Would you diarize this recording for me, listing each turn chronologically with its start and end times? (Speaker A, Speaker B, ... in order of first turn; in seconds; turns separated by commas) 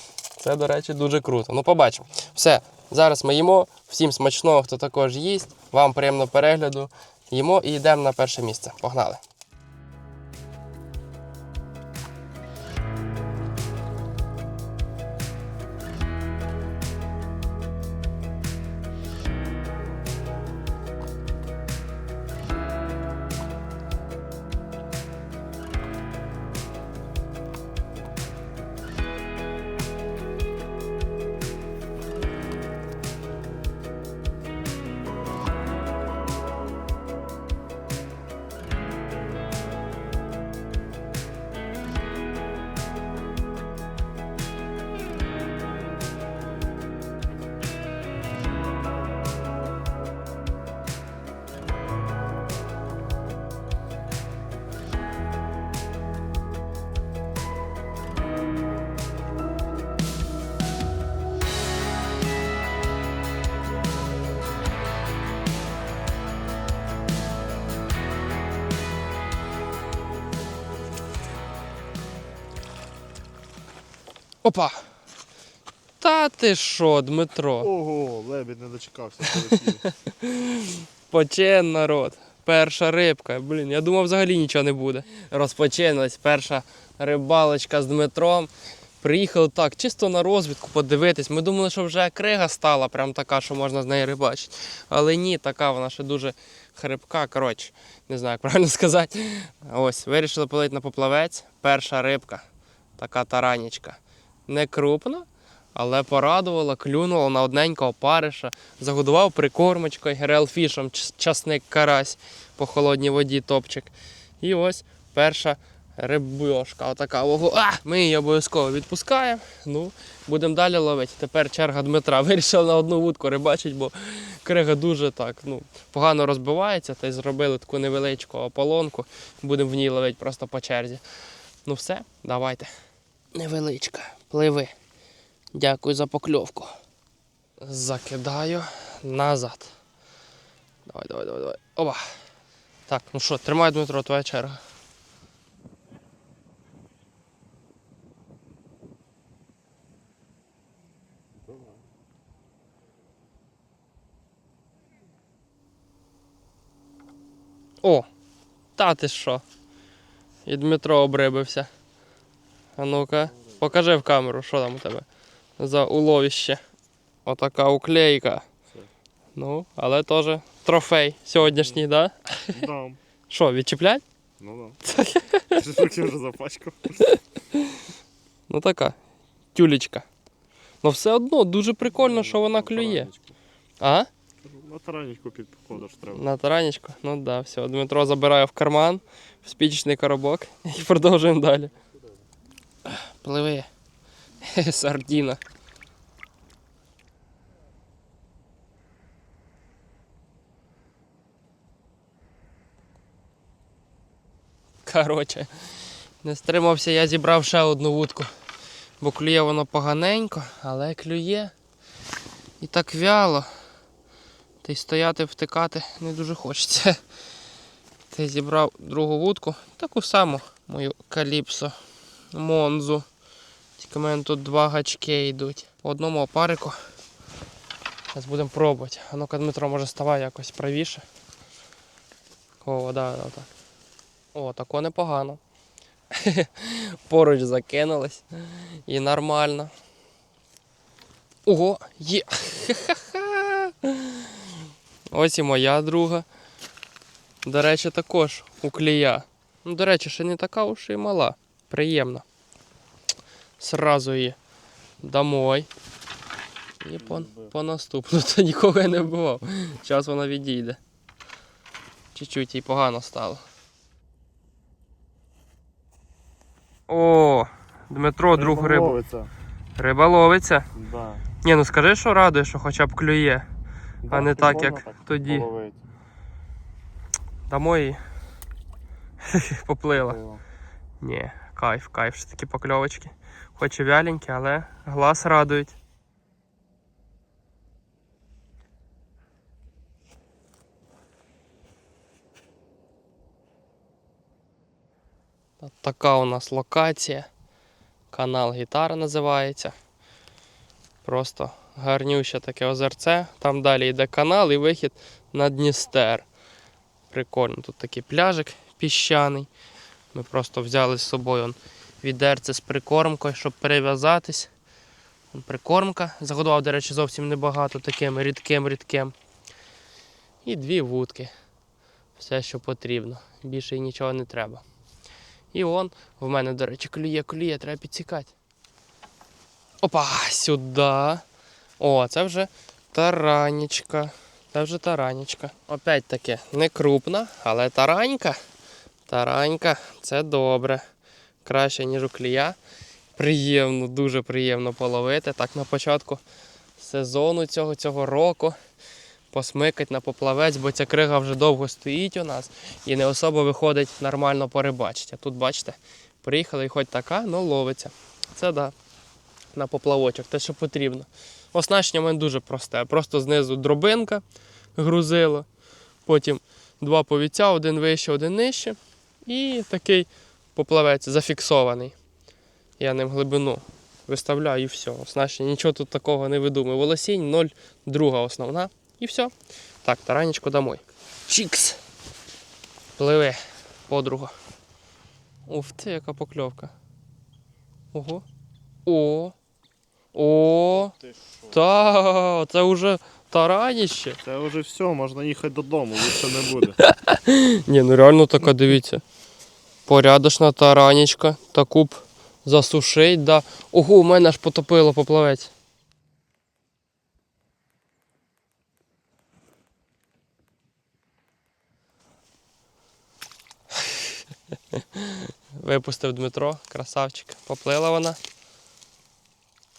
Speaker A: 0.3-9.2, Speaker A: 74.4-74.9, Speaker A: 76.0-77.7, Speaker B: 77.6-79.8, Speaker A: 79.3-102.5, Speaker A: 103.0-131.0, Speaker A: 131.6-132.7, Speaker A: 133.3-134.7, Speaker A: 135.5-136.7, Speaker A: 137.6-139.7, Speaker A: 140.8-142.0, Speaker A: 142.9-144.6, Speaker A: 158.8-159.4, Speaker A: 160.4-161.7, Speaker A: 162.8-165.1, Speaker B: 163.4-163.6, Speaker A: 165.6-166.6, Speaker A: 167.2-168.4, Speaker A: 169.3-172.6, Speaker B: 171.4-171.8, Speaker B: 172.5-173.0, Speaker A: 173.3-174.0, Speaker B: 174.4-174.8, Speaker A: 174.8-175.6, Speaker B: 175.5-177.1, Speaker A: 178.5-179.0, Speaker A: 179.5-180.1, Speaker A: 180.8-183.1, Speaker B: 181.9-183.3, Speaker A: 183.8-184.1, Speaker B: 184.4-186.3, Speaker A: 186.1-191.7, Speaker A: 192.8-193.7, Speaker A: 194.4-195.4, Speaker A: 204.8-205.5, Speaker A: 206.2-208.3, Speaker A: 209.0-211.5, Speaker A: 212.6-213.5, Speaker A: 214.6-217.0, Speaker A: 218.1-221.8, Speaker A: 222.3-223.1, Speaker A: 223.8-226.8, Speaker A: 228.1-231.0, Speaker A: 232.6-233.5, Speaker A: 234.3-235.4, Speaker A: 236.1-239.7, Speaker A: 241.4-244.5, Speaker A: 245.1-246.2, Speaker A: 247.4-252.2, Speaker A: 253.6-254.4, Speaker A: 255.0-255.7, Speaker A: 256.8-260.8, Speaker B: 257.0-257.5, Speaker A: 262.1-263.4, Speaker A: 266.9-268.9, Speaker B: 268.3-269.3, Speaker A: 269.8-270.7, Speaker B: 270.7-271.2, Speaker A: 271.4-273.5, Speaker B: 274.0-275.8, Speaker A: 274.1-275.5, Speaker A: 277.5-278.0, Speaker A: 279.2-280.2, Speaker B: 280.0-280.4, Speaker A: 281.0-285.7, Speaker A: 295.6-297.3, Speaker A: 298.1-299.7, Speaker A: 301.0-306.3, Speaker A: 307.1-309.5, Speaker A: 310.1-314.5, Speaker A: 315.3-319.1, Speaker A: 320.4-321.3, Speaker A: 322.1-324.6, Speaker A: 325.5-328.3, Speaker A: 329.8-331.2, Speaker A: 331.8-338.4, Speaker A: 339.1-340.8, Speaker A: 341.4-342.6, Speaker A: 343.1-346.2, Speaker A: 346.8-348.6, Speaker A: 349.3-358.7, Speaker A: 359.5-364.2, Speaker A: 364.8-365.5, Speaker A: 366.1-371.9, Speaker A: 372.8-381.8, Speaker A: 382.9-384.3, Speaker A: 385.4-386.7, Speaker A: 387.9-388.2, Speaker A: 388.9-389.3, Speaker A: 390.1-390.9, Speaker B: 390.7-391.6, Speaker A: 391.5-394.2, Speaker B: 394.2-396.8, Speaker A: 396.8-399.0, Speaker A: 399.9-405.5, Speaker A: 413.8-414.1, Speaker A: 414.7-418.2